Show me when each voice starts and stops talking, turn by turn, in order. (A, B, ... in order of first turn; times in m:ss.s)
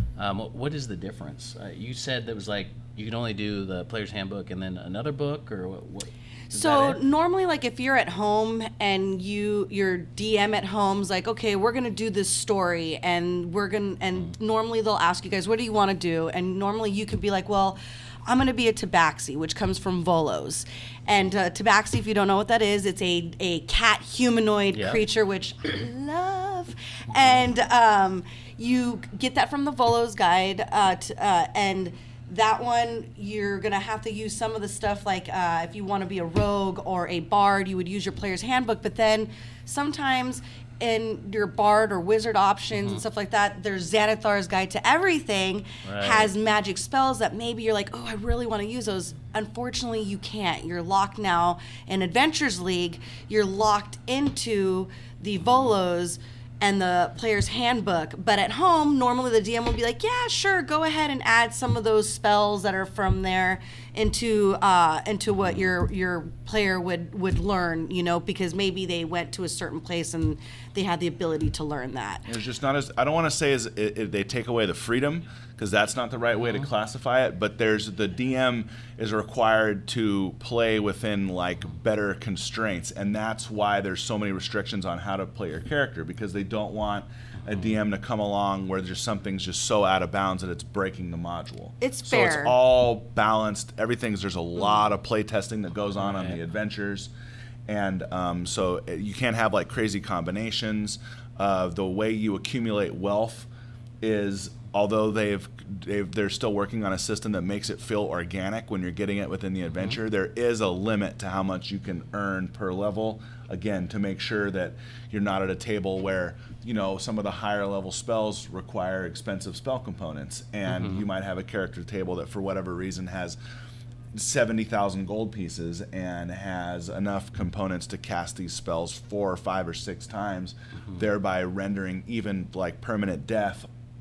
0:00.2-0:07.0 A
0:06.5-1:12.3 B
0:24.7-0:25.1 A
0:27.2-0:27.4 A
0:42.7-0:43.0 A
0:45.8-0:46.3 A
1:05.4-1:05.7 A
1:12.3-1:37.1 C
1:16.4-1:16.7 A
1:27.5-1:27.7 A
1:31.8-1:32.6 B
1:36.0-1:36.4 A
1:37.7-1:43.5 C
1:44.0-2:03.4 C
2:00.7-2:01.1 A
2:04.1-2:13.7 C